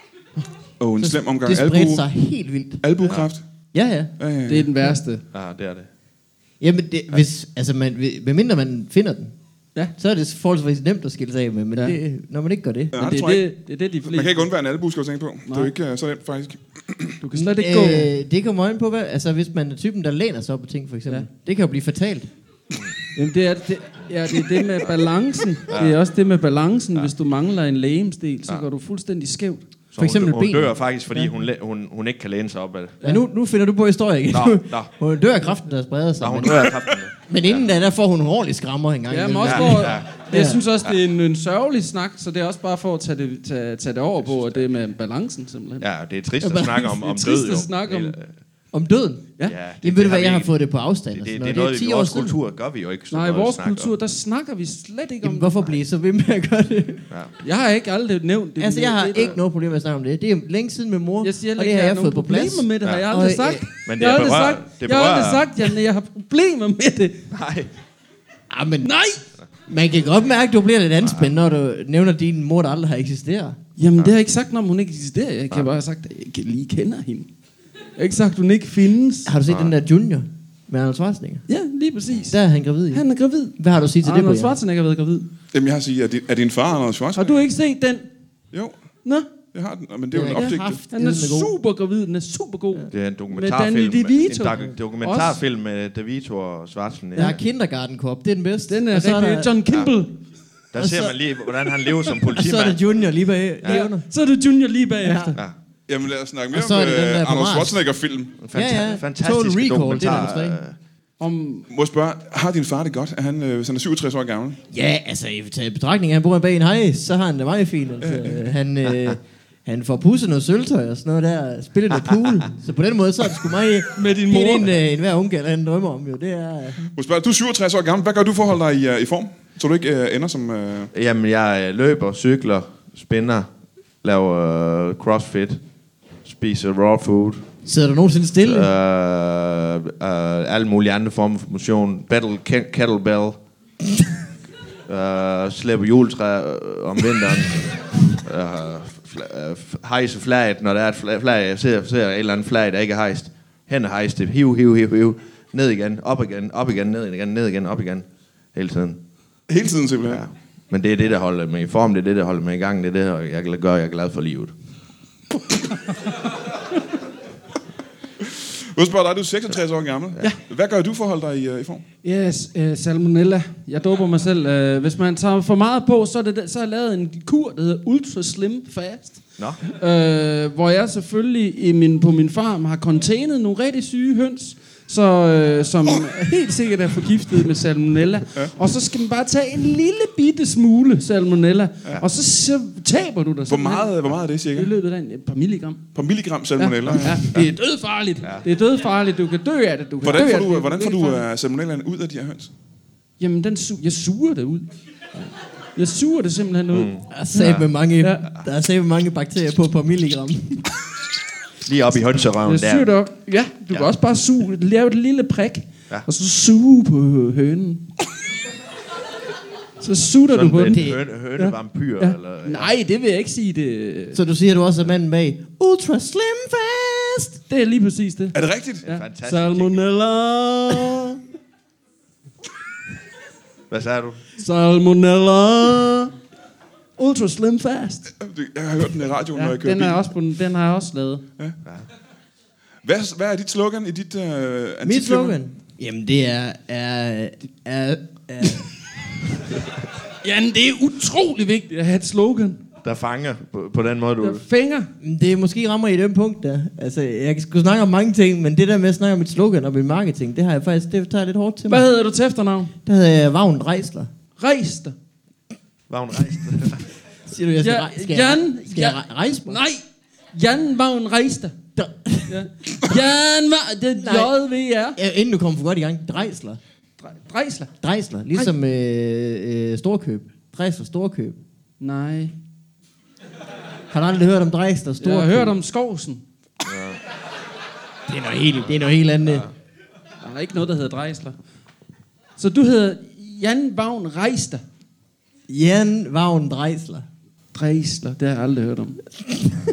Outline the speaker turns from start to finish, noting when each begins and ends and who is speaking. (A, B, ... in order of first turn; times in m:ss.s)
0:00.8-0:02.0 A
0:01.0-0:03.1 B
0:02.8-0:03.4 A
0:03.7-0:04.1 B
0:04.2-0:04.7 A
0:04.5-0:05.2 C
0:05.3-0:05.9 D
0:06.6-0:09.3 B
0:10.0-0:12.9 B
0:12.9-0:13.5 A
0:13.0-0:14.5 C
0:14.1-0:17.2 A
0:17.2-0:18.1 C
0:17.3-0:22.3 B
0:23.1-0:29.7 C
0:25.7-0:26.0 D
0:29.9-0:33.0 D
0:30.0-0:30.7 B
0:33.0-0:40.6 B
0:34.3-0:34.9 D
0:36.2-0:37.6 D
0:39.1-0:45.9 C
0:39.4-0:40.2 D
0:44.3-0:44.6 D
0:45.8-0:48.3 D
0:46.4-0:46.9 B
0:46.7-0:48.2 C
0:48.7-0:52.4 B
0:49.4-0:50.5 D
0:51.1-0:53.9 D
0:53.1-0:55.8 C
0:55.2-0:57.1 B
0:57.4-0:59.4 C
0:58.6-1:03.6 B
1:01.2-1:07.2 C
1:02.8-1:03.1 D
1:03.8-1:05.7 D
1:07.3-1:07.7 D
1:08.5-1:08.9 B
1:08.8-1:09.2 C
1:09.7-1:13.6 B
1:11.0-1:11.4 D
1:13.8-1:17.3 C
1:18.0-1:19.3 C
1:19.2-1:21.4 B
1:19.5-1:19.7 D
1:21.5-1:25.3 C
1:22.3-1:23.0 B
1:23.6-1:24.5 B
1:25.5-1:27.4 A
1:27.1-1:28.1 C
1:28.5-1:28.8 A
1:29.5-1:30.8 A
1:30.1-1:31.5 B
1:30.3-1:35.4 C
1:32.9-1:37.4 D
1:37.2-1:39.5 B
1:38.7-1:40.2 C
1:39.7-1:39.9 D
1:40.7-1:42.8 D
1:40.7-1:41.1 B
1:42.2-1:44.0 B
1:43.6-1:45.4 C
1:45.0-1:45.4 B
1:45.9-1:48.4 A
1:46.5-1:47.8 B
1:48.4-1:50.8 D
1:48.5-1:50.6 B
1:51.2-1:51.6 C
1:51.7-1:54.6 A
1:54.7-2:06.9 B
1:58.0-1:58.4 A
2:04.0-2:04.7 C
2:06.9-2:10.9 A
2:10.9-2:13.5 D
2:14.0-2:15.6 D
2:16.2-2:17.4 D
2:17.6-2:18.7 B
2:18.4-2:23.4 D
2:24.9-2:39.0 D
2:39.5-2:40.2 A
2:40.0-2:44.5 D
2:48.3-2:51.8 A
2:52.0-3:15.8 C
3:13.5-3:14.7 A
3:15.9-3:17.2 A
3:16.6-3:21.2 C
3:20.0-3:22.5 A
3:23.2-3:24.6 C
3:25.8-3:28.2 C
3:26.7-3:27.7 D
3:27.1-3:30.7 B
3:31.6-3:32.9 D
3:32.4-3:37.9 C
3:39.8-3:44.2 C
3:40.3-3:42.7 D
3:44.1-3:47.4 B
3:47.5-3:51.2 C
3:48.3-3:48.8 A
3:48.8-3:49.8 D
3:50.7-3:51.0 B
3:53.7-3:54.2 D
3:54.4-3:56.1 C
3:57.0-3:58.1 C
3:58.2-4:00.1 A
3:59.3-4:01.2 C
4:02.8-4:05.4 A
4:04.8-4:08.8 B
4:10.2-4:12.6 C
4:12.8-4:14.4 D
4:14.2-4:14.9 C
4:15.0-4:21.8 B
4:21.7-4:22.7 C
4:22.8-4:24.1 B
4:24.4-4:24.9 C
4:25.9-4:26.9 D
4:27.3-4:29.6 B
4:27.6-4:29.8 C
4:30.3-4:31.5 C
4:31.8-4:33.0 B
4:32.3-4:35.0 C
4:34.0-4:34.3 B
4:35.0-4:36.6 B
4:37.0-4:37.7 C
4:37.8-4:41.4 B
4:41.8-4:42.3 C
4:43.9-4:45.5 B
4:45.0-4:46.2 C
4:46.6-4:47.0 D
4:48.1-4:49.5 B
4:49.2-4:49.5 D
4:50.2-4:51.3 C
4:52.4-4:54.6 C
4:55.5-4:57.1 B
4:57.5-4:59.0 C